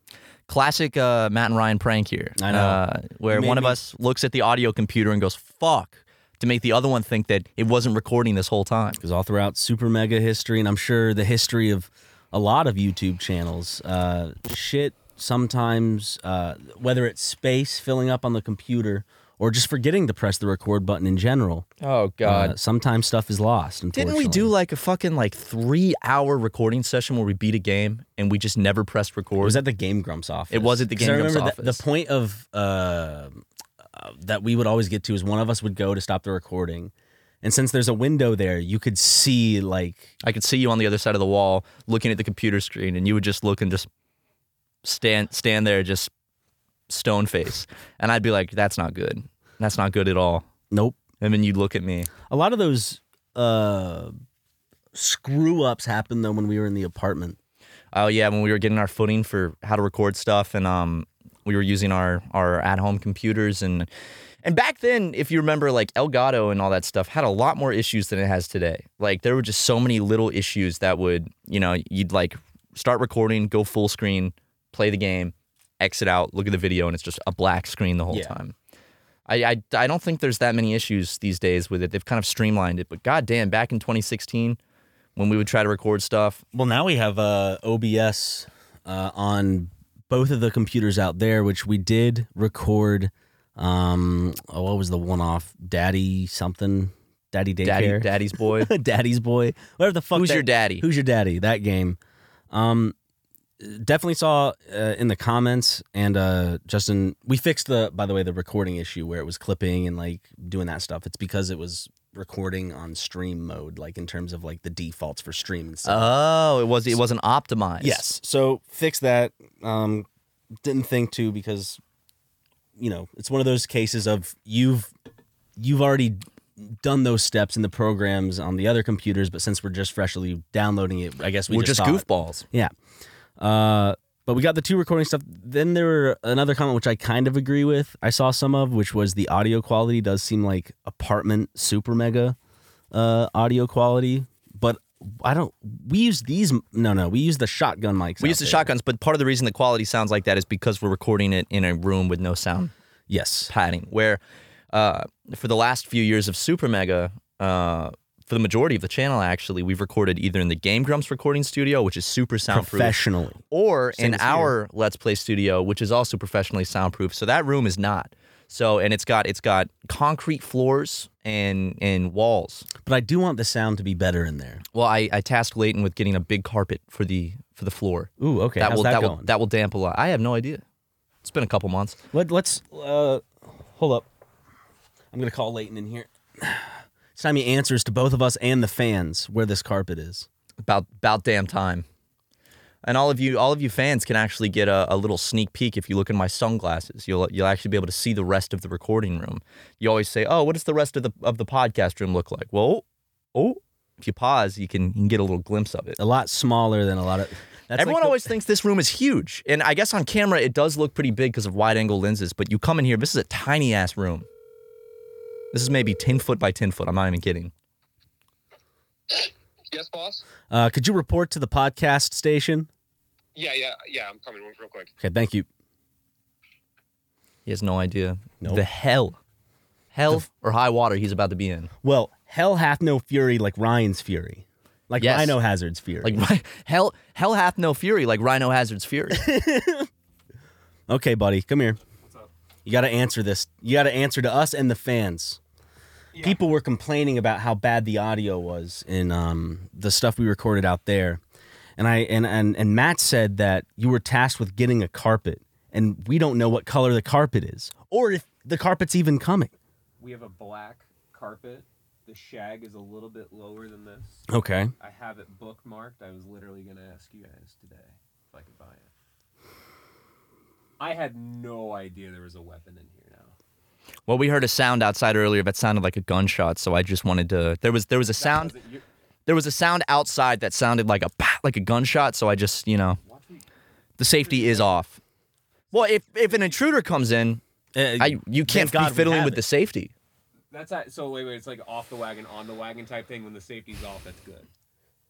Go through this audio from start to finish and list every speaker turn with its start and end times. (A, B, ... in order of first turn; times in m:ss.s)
0:00.5-0:09.0 A
0:02.4-0:03.8 B
0:09.0-0:21.7 B
0:21.8-0:22.6 A
0:22.2-0:24.5 B
0:23.9-0:29.6 A
0:29.4-0:33.4 B
0:30.5-0:31.8 A
0:34.0-0:40.1 B
0:40.2-0:43.9 A
0:44.8-0:46.1 A
0:46.9-0:50.4 A
0:50.7-0:51.0 B
0:51.2-0:52.1 A
0:52.3-0:54.1 B
0:54.9-0:57.4 B
0:57.9-1:03.9 A
1:04.4-1:18.5 A
1:18.1-1:18.4 B
1:19.3-1:24.6 A
1:25.2-1:26.4 A
1:26.5-1:42.0 B
1:37.6-1:38.7 A
1:40.1-1:40.9 A
1:42.5-1:43.0 B
1:43.6-1:56.1 B
1:55.8-1:58.1 A
1:57.8-2:00.1 B
2:00.6-2:01.8 B
2:02.8-2:04.9 B
2:05.6-2:12.7 B
2:11.5-2:12.4 A
2:13.4-2:22.4 B
2:22.9-2:28.7 B
2:28.2-2:32.7 A
2:33.1-2:33.5 B
2:33.5-2:34.2 A
2:34.7-2:43.0 A
2:42.5-2:43.4 B
2:43.5-2:52.7 A
2:44.0-2:44.6 B
2:52.8-2:54.6 B
2:54.7-3:00.6 A
2:58.2-2:59.3 B
3:01.2-3:02.0 A
3:02.1-3:04.1 B
3:05.1-3:10.3 B
3:10.6-3:11.8 A
3:12.8-3:22.8 A
3:23.4-3:26.0 A
3:26.0-3:28.3 B
3:27.8-3:34.3 A
3:35.5-3:37.5 A
3:39.1-3:40.2 C
3:40.5-3:42.7 B
3:43.4-3:44.9 C
3:45.0-3:45.5 B
3:47.5-3:49.2 A
3:49.9-3:51.7 A
3:51.8-3:56.2 B
3:55.0-3:55.4 A
3:56.0-3:59.3 A
3:59.1-3:59.9 B
4:00.9-4:01.8 B
4:02.6-4:05.4 B
4:06.2-4:11.2 B
4:11.8-4:19.5 B
4:20.0-4:24.2 D
4:24.3-4:24.7 B
4:24.8-4:28.9 D
4:30.8-4:33.3 D
4:34.1-4:38.6 A
4:38.2-4:38.8 D
4:39.3-4:43.0 A
4:43.0-4:43.5 D
4:44.0-4:45.0 A
4:44.0-4:44.8 D
4:45.7-4:46.6 D
4:45.7-4:47.4 A
4:47.8-4:49.4 B
4:48.0-4:49.9 A
4:50.5-4:54.5 D